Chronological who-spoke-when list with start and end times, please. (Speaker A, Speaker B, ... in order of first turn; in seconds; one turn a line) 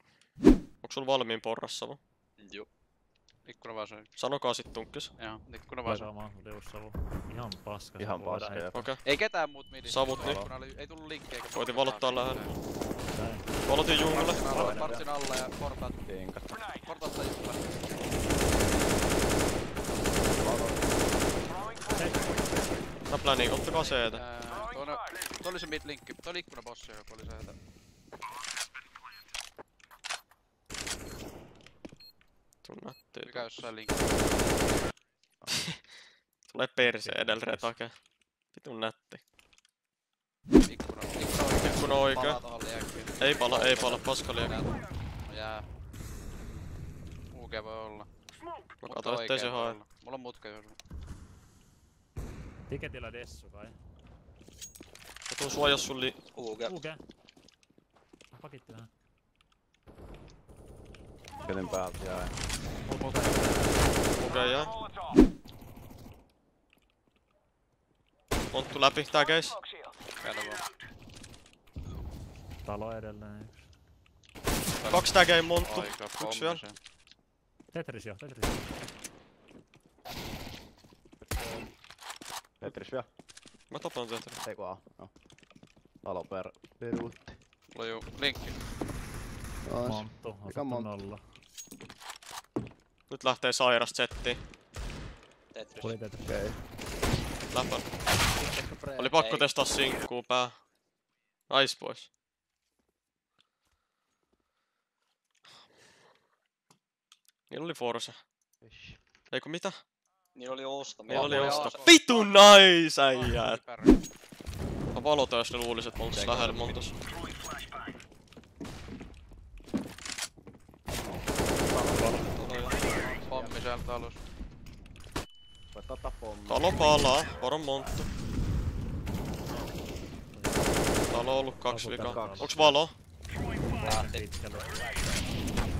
Speaker A: 0.8-2.0
Speaker B: 2.4-2.7
Speaker C: 3.5-4.1
Speaker A: 4.2-5.1
Speaker C: 5.2-6.1
Speaker D: 5.8-8.8
Speaker E: 8.0-8.9
Speaker A: 8.7-9.0
Speaker C: 9.1-12.5
Speaker A: 9.8-10.5
Speaker E: 10.2-10.5
Speaker A: 11.5-12.5
Speaker D: 13.1-13.7
Speaker A: 13.7-14.4
Speaker C: 13.9-16.0
Speaker D: 14.4-14.9
Speaker E: 14.5-15.1
Speaker E: 16.1-16.5
Speaker C: 16.8-17.8
Speaker E: 20.4-21.1
Speaker D: 21.9-22.4
Speaker A: 23.1-24.2
Speaker C: 23.9-27.6
Speaker A: 32.6-33.7
Speaker C: 33.2-34.6
Speaker A: 36.5-39.2
Speaker D: 36.8-37.8
Speaker C: 40.7-45.7
Speaker A: 41.5-42.4
Speaker A: 43.2-44.5
Speaker C: 47.3-48.1
Speaker A: 48.8-49.8
Speaker C: 48.8-50.8
Speaker D: 52.7-53.8
Speaker A: 55.3-56.2
Speaker B: 56.3-56.8
Speaker D: 56.6-57.0
Speaker D: 58.3-58.9
Speaker E: 61.5-62.4
Speaker D: 62.9-63.9
Speaker C: 62.9-63.8
Speaker A: 64.2-64.8
Speaker A: 68.5-69.6
Speaker C: 70.2-70.7
Speaker D: 72.6-73.7
Speaker C: 74.8-76.8
Speaker A: 74.9-76.6
Speaker D: 77.7-78.8
Speaker E: 81.2-81.7
Speaker E: 82.6-83.1
Speaker A: 83.7-84.4
Speaker E: 84.4-85.1
Speaker E: 86.0-87.4
Speaker C: 87.7-88.6
Speaker E: 89.6-91.0
Speaker D: 89.8-91.2
Speaker A: 93.1-94.4
Speaker B: 95.5-96.0
Speaker D: 95.8-96.5
Speaker E: 96.2-96.6
Speaker A: 97.5-97.9
Speaker E: 98.3-99.2
Speaker A: 99.0-100.6
Speaker B: 99.2-99.5
Speaker A: 101.5-102.1
Speaker A: 107.5-108.2
Speaker E: 108.6-109.0
Speaker A: 109.3-109.8
Speaker B: 110.3-111.9
Speaker C: 111.1-114.0
Speaker E: 111.1-111.6
Speaker A: 111.1-113.6
Speaker A: 114.9-117.0
Speaker E: 116.1-116.8
Speaker E: 121.5-123.6
Speaker D: 121.8-122.3
Speaker A: 122.4-122.8
Speaker C: 123.2-124.2
Speaker E: 125.7-127.1
Speaker A: 126.5-128.1
Speaker D: 130.2-130.9
Speaker A: 131.1-133.0
Speaker D: 131.7-132.7
Speaker E: 132.0-132.9
Speaker D: 133.7-134.8
Speaker B: 133.8-135.1